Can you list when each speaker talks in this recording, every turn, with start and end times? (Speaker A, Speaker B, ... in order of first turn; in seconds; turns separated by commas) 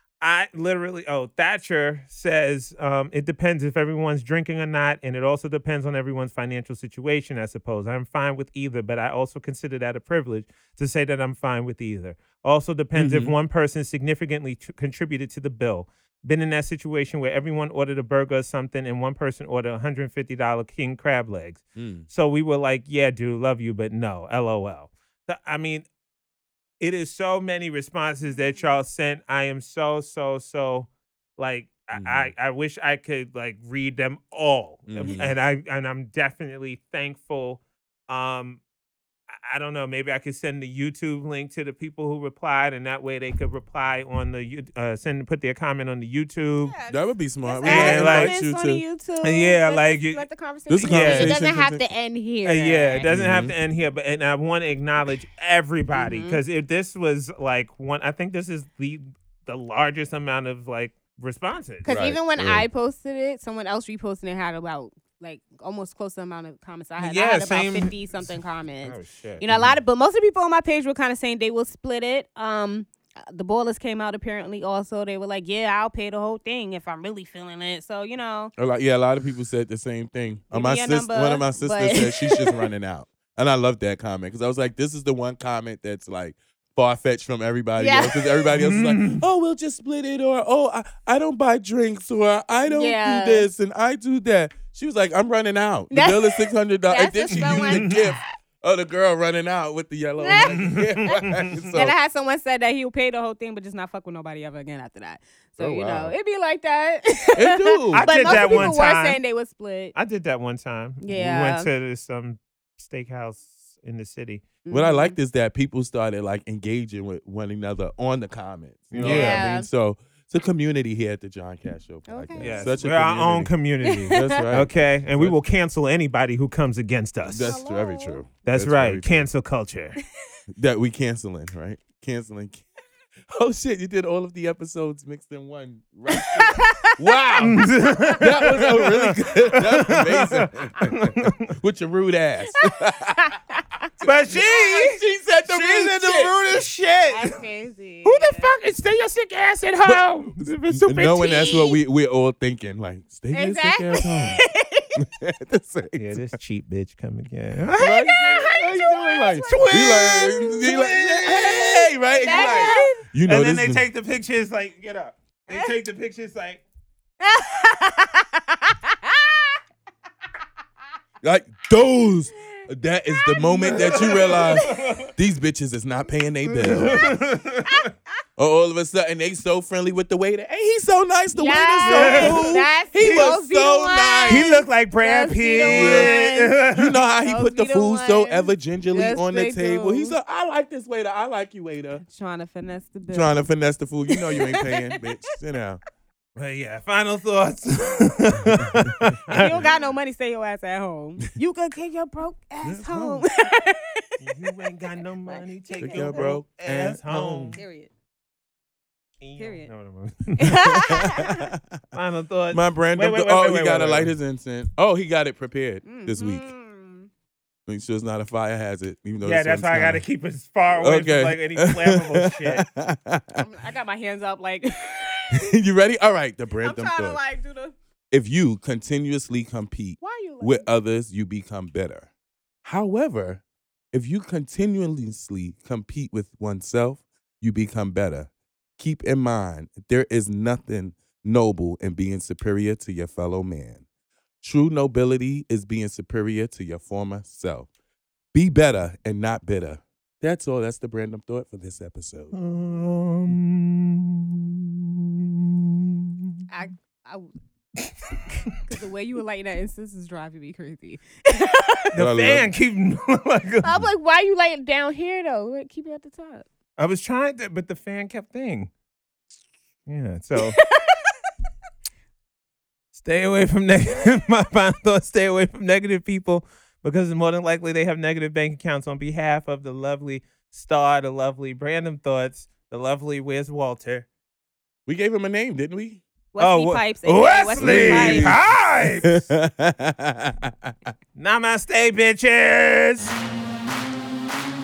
Speaker A: 0.2-25.9, Speaker B: 12.9-13.3, Speaker B: 21.8-22.1, Speaker A: 26.8-38.6, Speaker B: 31.9-32.3, Speaker B: 34.9-35.4, Speaker A: 39.3-46.7, Speaker C: 46.6-53.1, Speaker B: 46.9-48.8, Speaker A: 47.6-48.4, Speaker A: 49.2-50.2, Speaker B: 50.7-51.8, Speaker A: 50.8-51.4, Speaker A: 52.5-61.9, Speaker B: 53.1-53.5, Speaker C: 56.0-56.4, Speaker C: 61.8-78.5, Speaker B: 61.9-62.7, Speaker A: 67.0-68.3, Speaker A: 68.8-69.5, Speaker B: 78.6-102.0, Speaker C: 80.5-82.7, Speaker C: 87.8-88.5, Speaker A: 88.5-89.2, Speaker C: 92.7-93.5, Speaker C: 95.9-98.2, Speaker A: 97.4-98.0, Speaker C: 100.2-101.2, Speaker A: 100.5-101.7, Speaker C: 101.7-110.0, Speaker B: 105.6-106.2, Speaker B: 107.3-108.7, Speaker A: 107.9-109.2, Speaker A: 110.0-114.4, Speaker C: 111.0-111.7, Speaker C: 114.6-115.2, Speaker B: 114.7-123.5, Speaker A: 118.9-119.5, Speaker C: 119.0-119.7, Speaker C: 122.1-122.7, Speaker A: 122.4-127.6, Speaker C: 123.9-124.4, Speaker B: 124.0-125.3, Speaker B: 127.2-129.3, Speaker C: 127.4-128.2, Speaker A: 128.4-130.0, Speaker B: 130.5-132.6, Speaker B: 133.3-140.9, Speaker C: 136.1-136.9, Speaker A: 137.4-141.6, Speaker B: 141.6-143.3, Speaker C: 143.2-143.6, Speaker A: 144.0-147.4, Speaker B: 144.3-146.3, Speaker C: 147.1-148.5, Speaker A: 148.0-151.6, Speaker B: 149.8-154.4, Speaker C: 151.3-151.8, Speaker C: 153.3-155.0, Speaker B: 154.9-156.3, Speaker A: 155.9-157.9, Speaker B: 157.8-163.9, Speaker C: 157.8-160.2, Speaker A: 159.5-166.6, Speaker C: 162.1-163.0, Speaker C: 167.2-169.4, Speaker B: 171.2-177.1, Speaker C: 173.4-174.5, Speaker A: 173.5-175.1, Speaker A: 176.5-177.9, Speaker B: 178.4-184.5, Speaker C: 181.3-186.6, Speaker A: 181.8-182.5, Speaker A: 184.3-186.9, Speaker B: 185.6-186.2, Speaker B: 186.7-192.0, Speaker C: 187.2-190.1, Speaker C: 192.0-193.4, Speaker B: 193.1-195.8, Speaker C: 194.1-195.4, Speaker A: 196.4-199.6, Speaker C: 199.3-204.2, Speaker B: 202.6-203.3, Speaker A: 204.2-207.6, Speaker C: 205.3-206.3, Speaker B: 205.8-207.6, Speaker C: 207.6-207.9, Speaker A: 209.2-210.6, Speaker C: 209.4-209.7, Speaker C: 210.4-211.5, Speaker B: 210.6-211.8, Speaker A: 211.9-214.1, Speaker B: 212.5-216.5, Speaker C: 215.8-217.1, Speaker B: 217.7-220.0, Speaker A: 219.2-222.6, Speaker B: 220.7-223.4, Speaker C: 223.4-225.5, Speaker B: 225.3-227.2, Speaker C: 226.6-227.7, Speaker B: 228.1-232.1, Speaker C: 230.0-230.7, Speaker B: 232.6-243.8, Speaker B: 244.4-247.7, Speaker B: 248.3-252.3, Speaker A: 252.3-254.6, Speaker A: 255.2-256.4, Speaker C: 256.5-257.3, Speaker A: 257.8-258.6, Speaker C: 258.6-261.9, Speaker A: 261.9-263.7, Speaker B: 261.9-262.5, Speaker C: 263.6-266.4, Speaker A: 266.8-268.7, Speaker A: 269.9-270.6, Speaker C: 270.4-271.1, Speaker A: 272.9-284.1, Speaker B: 284.9-286.0, Speaker C: 286.3-288.4, Speaker A: 286.4-289.2, Speaker B: 287.6-288.4, Speaker B: 289.0-290.7, Speaker A: 291.2-293.1